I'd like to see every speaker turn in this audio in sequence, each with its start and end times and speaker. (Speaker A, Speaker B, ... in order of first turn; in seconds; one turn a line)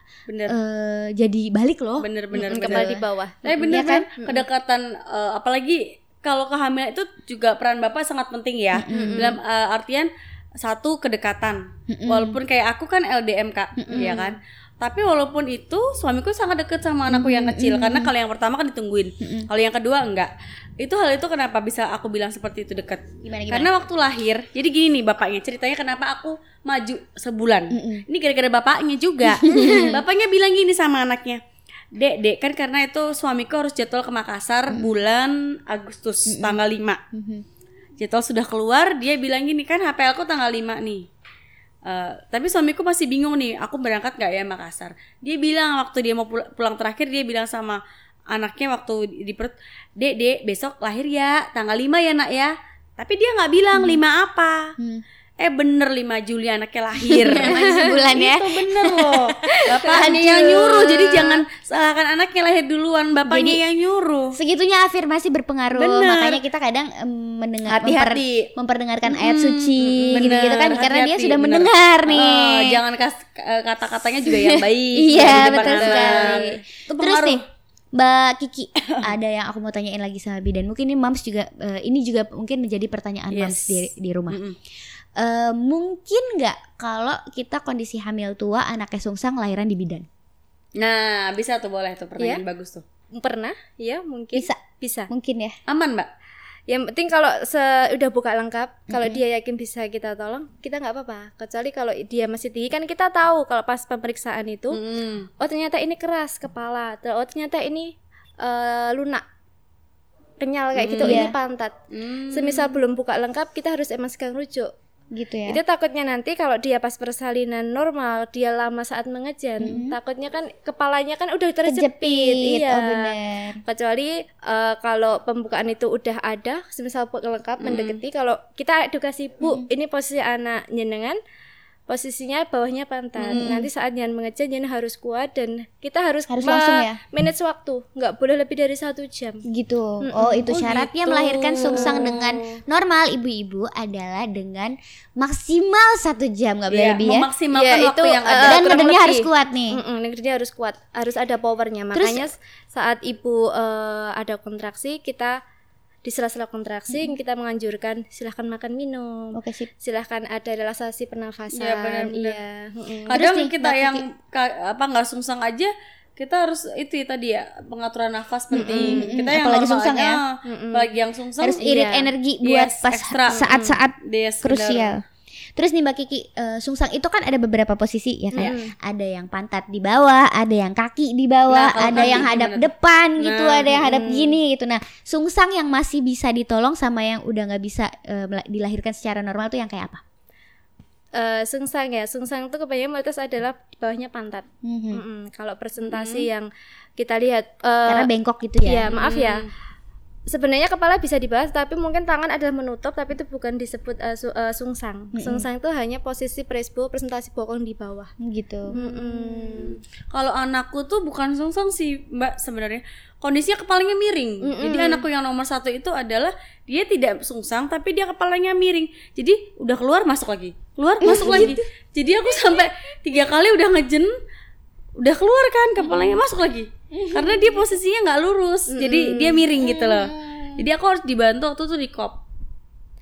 Speaker A: 0.3-0.6
Speaker B: 0.5-3.0
Speaker A: 2.0-2.9
Speaker C: 2.4-4.5
Speaker A: 3.4-31.4
Speaker B: 3.7-4.1
Speaker B: 8.7-9.3
Speaker C: 8.9-9.4
Speaker B: 11.9-12.4
Speaker B: 13.8-14.2
Speaker C: 13.9-14.3
Speaker B: 17.1-18.1
Speaker B: 19.2-19.5
Speaker B: 23.2-23.7
Speaker B: 27.7-28.1
Speaker B: 29.3-30.0
Speaker C: 29.6-29.9
Speaker A: 31.9-37.0
Speaker B: 34.7-35.0
Speaker B: 36.3-36.6
Speaker B: 37.1-37.4
Speaker A: 38.0-41.1
Speaker A: 41.9-54.7
Speaker B: 53.7-54.0
Speaker B: 54.8-55.0
Speaker A: 55.4-64.3
Speaker B: 57.0-61.4
Speaker C: 57.5-58.0
Speaker B: 63.2-63.6
Speaker B: 64.3-72.8
Speaker A: 65.7-66.4
Speaker A: 67.7-68.5
Speaker A: 69.0-77.4
Speaker C: 69.8-70.5
Speaker B: 74.3-84.4
Speaker C: 75.1-76.6
Speaker A: 78.8-79.1
Speaker A: 83.3-84.6
Speaker B: 85.2-90.1
Speaker A: 90.8-92.8
Speaker C: 93.1-95.1
Speaker B: 95.1-95.6
Speaker A: 95.7-96.1
Speaker C: 96.7-104.8
Speaker B: 98.9-99.2
Speaker A: 104.7-105.3
Speaker C: 105.4-109.2
Speaker C: 110.4-111.8
Speaker A: 110.8-111.3
Speaker B: 111.0-111.3
Speaker A: 111.9-112.8
Speaker C: 112.3-114.7
Speaker B: 115.1-115.6
Speaker C: 115.5-131.2
Speaker B: 119.6-120.0
Speaker B: 121.7-123.6
Speaker A: 127.6-128.0
Speaker C: 131.9-139.4
Speaker A: 133.2-133.6
Speaker B: 133.3-133.7
Speaker B: 136.3-137.0
Speaker B: 139.4-147.3
Speaker C: 140.0-140.5
Speaker A: 140.5-142.4
Speaker C: 141.7-142.2
Speaker A: 146.7-148.8
Speaker C: 147.5-155.4
Speaker B: 148.4-149.8
Speaker B: 151.9-152.3
Speaker C: 156.1-163.2
Speaker B: 159.3-159.7
Speaker A: 161.5-162.4
Speaker B: 163.1-164.1
Speaker A: 163.1-171.7
Speaker C: 168.6-169.1
Speaker B: 168.6-170.2
Speaker C: 170.4-170.9
Speaker B: 171.4-175.0
Speaker C: 171.6-172.1
Speaker A: 172.4-174.9
Speaker C: 173.3-173.7
Speaker B: 175.6-190.0
Speaker C: 178.3-178.7
Speaker A: 181.5-183.9
Speaker C: 183.8-184.4
Speaker C: 191.1-198.1
Speaker B: 194.6-195.0
Speaker A: 195.8-196.3
Speaker B: 197.9-198.9
Speaker C: 198.6-199.5
Speaker A: 198.9-199.5
Speaker C: 200.3-208.1
Speaker B: 205.1-205.4
Speaker B: 208.2-208.8
Speaker C: 208.7-209.8
Speaker A: 208.7-224.1
Speaker C: 214.4-215.1
Speaker B: 221.0-221.6
Speaker A: 225.0-232.2
Speaker B: 225.8-226.2
Speaker B: 226.9-227.6
Speaker C: 228.7-229.5
Speaker B: 229.6-230.7